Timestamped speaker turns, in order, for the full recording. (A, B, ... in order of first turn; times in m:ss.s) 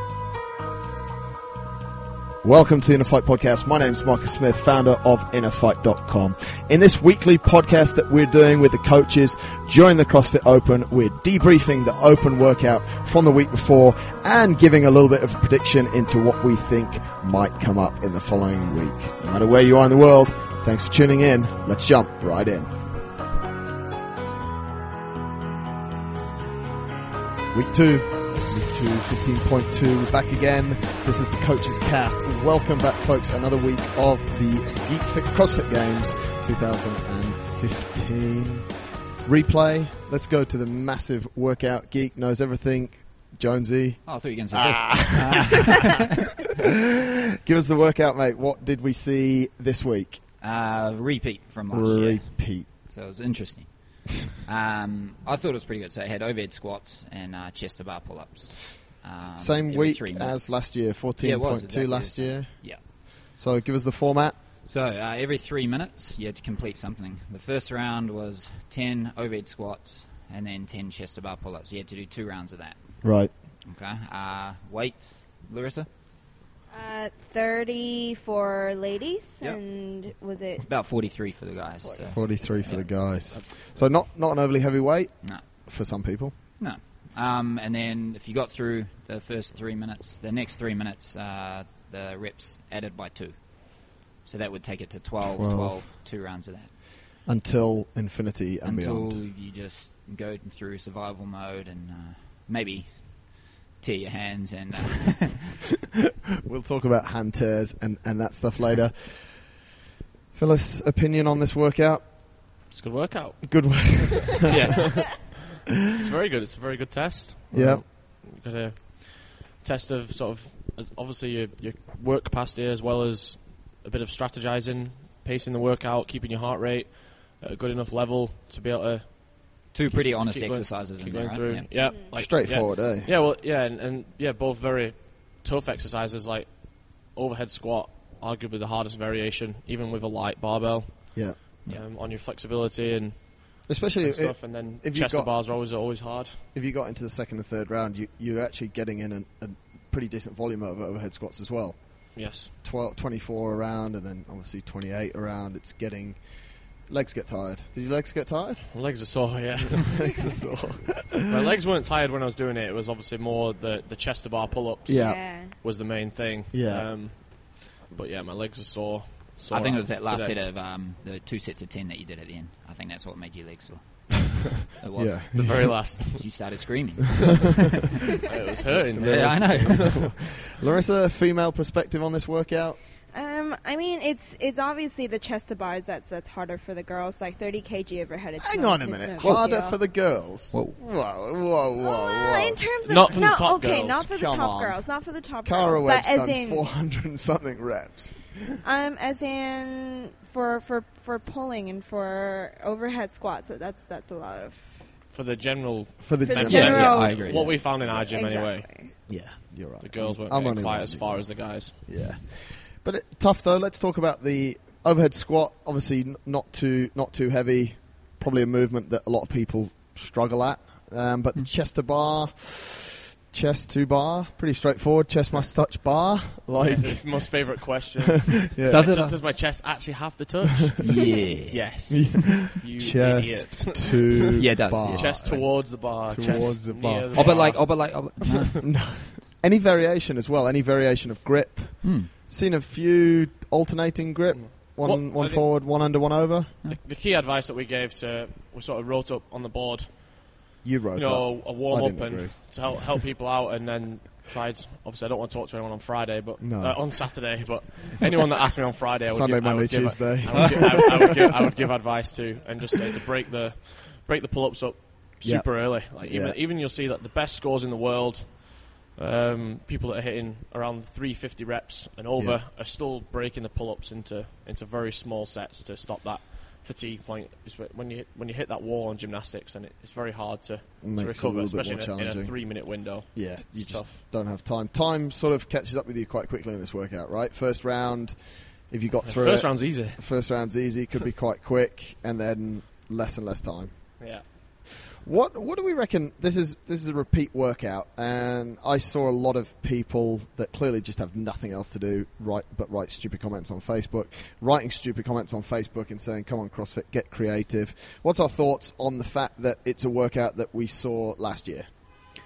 0:02.4-0:22.7 A
0:27.5-0:38.6 A
0:39.2-0:46.2 A
0:44.0-0:46.0 B
0:47.4-0:50.2 A
0:50.4-1:00.6 B
0:51.7-0:52.7 A
0:59.3-1:04.4 A
1:01.2-1:02.8 B
1:04.6-1:15.9 B
1:13.0-1:13.3 A
1:16.7-1:20.7 C
1:20.6-1:22.9 B
1:21.8-1:22.5 C
1:22.1-1:26.4 A
1:26.6-1:36.7 B
1:35.4-1:35.9 A
1:37.2-1:39.2 A
1:38.6-1:45.5 B
1:46.4-1:49.6 A
1:50.3-1:52.5 A
1:52.7-1:54.0 D
1:53.4-1:54.5 A
1:54.5-1:54.9 B
1:54.6-1:55.3 D
1:56.0-2:26.4 D
1:57.5-1:57.9 A
2:09.7-2:11.7 B
2:11.7-2:12.2 C
2:12.1-2:13.1 A
2:23.7-2:25.4 A
2:26.5-2:38.8 A
2:32.2-2:32.5 D
2:38.7-2:40.0 D
2:39.6-2:41.3 A
2:40.0-2:40.5 C
2:41.3-2:50.4 D
2:44.9-2:45.2 A
2:44.9-2:45.6 C
2:46.5-2:47.0 A
2:49.5-2:55.6 B
2:55.0-2:56.0 A
2:55.4-2:57.4 D
2:56.2-2:57.7 B
2:58.3-3:00.1 D
2:58.8-3:02.8 A
2:59.0-3:00.1 B
3:03.1-3:09.9 C
3:08.4-3:12.6 A
3:10.5-3:10.8 B
3:11.8-3:16.7 C
3:12.8-3:14.0 D
3:14.0-3:14.8 A
3:15.4-3:18.6 A
3:18.6-3:24.9 C
3:25.1-3:28.7 D
3:26.0-3:27.7 A
3:26.2-3:29.1 C
3:26.5-3:27.5 B
3:29.1-3:47.6 A
3:29.8-3:31.8 D
3:46.6-3:50.9 D
3:48.4-3:48.9 A
3:48.7-3:49.2 B
3:50.8-3:51.6 B
3:51.5-3:58.5 D
3:51.9-3:57.6 A
3:54.4-3:55.4 B
3:56.2-3:56.5 B
3:57.1-3:58.7 B
3:58.6-4:06.7 A
4:01.8-4:02.1 B
4:04.3-4:05.5 D
4:06.6-4:44.0 D
4:10.6-4:12.4 A
4:16.4-4:17.2 A
4:19.1-4:21.5 A
4:25.2-4:26.4 A
4:40.8-4:54.0 A
4:49.0-4:50.0 D
4:54.0-4:54.2 D
4:55.0-5:11.7 A